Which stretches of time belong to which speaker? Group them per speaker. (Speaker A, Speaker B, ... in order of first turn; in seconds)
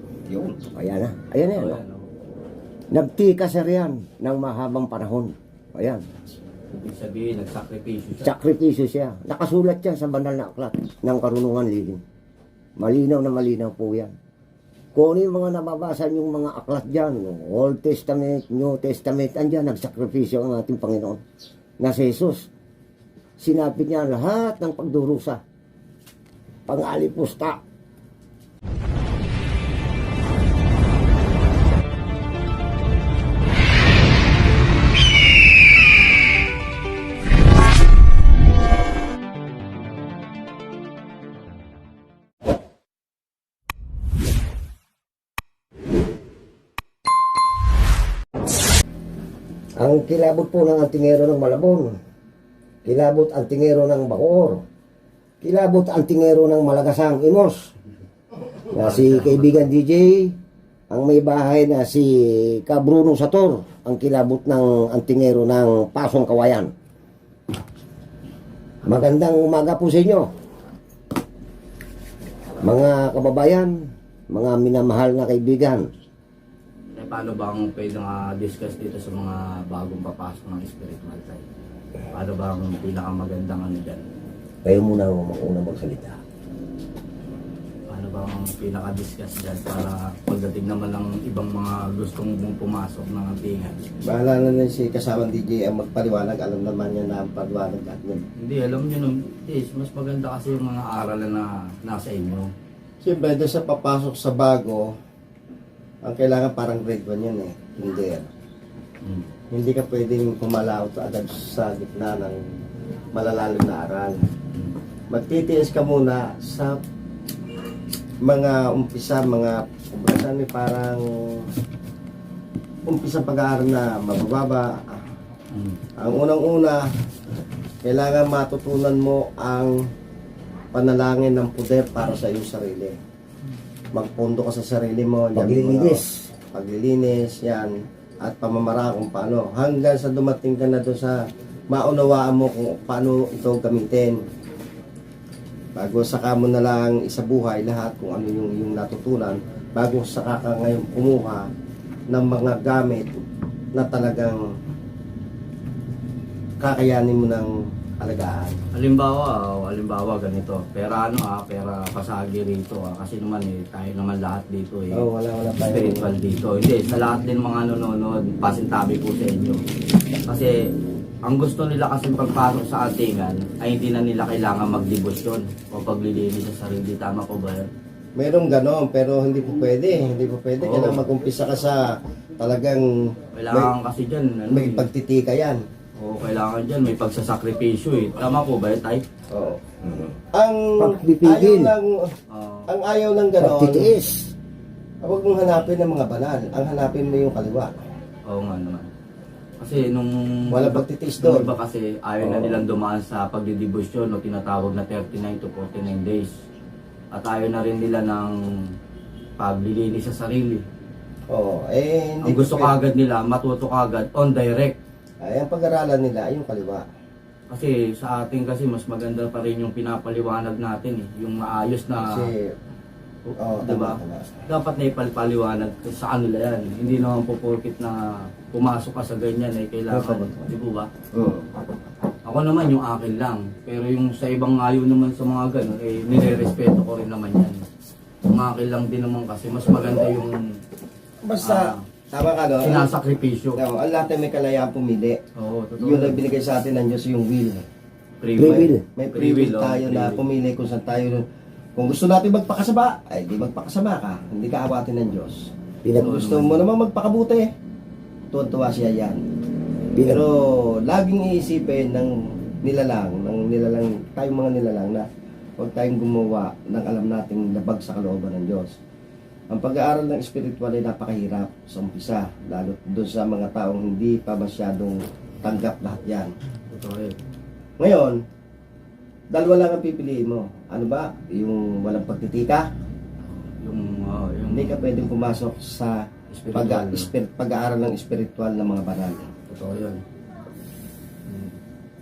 Speaker A: 0.3-0.6, 94.0-98.2, 103.0-104.9, 106.0-108.3, 109.5-112.5, 113.1-114.2, 115.1-116.8, 118.2-121.5, 122.8-125.0, 126.0-126.9, 127.8-129.8, 130.7-133.0, 133.9-136.0, 136.5-144.2, 145.8-151.5, 152.1-153.2, 153.7-154.4, 156.6-158.6, 164.9-166.1, 178.2-182.9, 184.5-185.6, 189.3-189.6, 190.3-192.1, 192.7-194.0, 195.0-197.7, 200.5-201.5, 202.2-202.6, 211.3-212.7, 215.2-216.8, 222.0-222.5, 223.4-224.3, 229.9-230.5, 231.1-231.5, 241.2-242.9, 243.6-245.2, 245.8-247.6, 248.4-251.2, 251.8-257.5, 258.3-259.2, 260.1-265.1, 265.6-268.8, 269.5-276.3, 277.8-278.2, 279.3-282.7, 284.5-289.3
Speaker B: 0.7-1.8, 2.9-6.0, 8.2-12.0, 12.8-14.1, 14.9-21.2, 21.8-22.5, 23.4-25.4, 26.7-27.6, 49.8-52.0, 52.8-54.6, 55.4-57.7, 58.7-60.4, 60.9-66.7, 68.8-70.3, 72.6-75.8, 84.6-86.2, 135.3-136.3, 189.9-190.1, 190.8-191.7, 193.4-194.3, 248.4-248.8, 255.8-256.1, 259.9-260.2
Speaker C: 1.5-2.1, 6.7-8.3, 58.7-59.5, 77.0-81.4, 82.1-84.0, 87.9-93.8, 98.4-102.5, 109.0-109.3, 125.5-125.8, 158.7-169.6, 170.3-170.5, 171.2-177.7, 180.6-181.0, 183.3-184.8, 186.0-189.0, 192.3-192.7, 198.3-198.9, 199.6-206.3, 207.1-208.4, 209.4-210.6, 212.2-214.7, 217.5-222.3, 223.6-230.9, 232.2-237.6, 238.3-240.4, 241.4-241.8, 242.6-243.6, 245.3-246.2, 248.2-250.2, 256.0-256.6, 276.7-277.1, 283.3-284.8, 286.3-287.1, 289.5-290.0, 291.3-291.6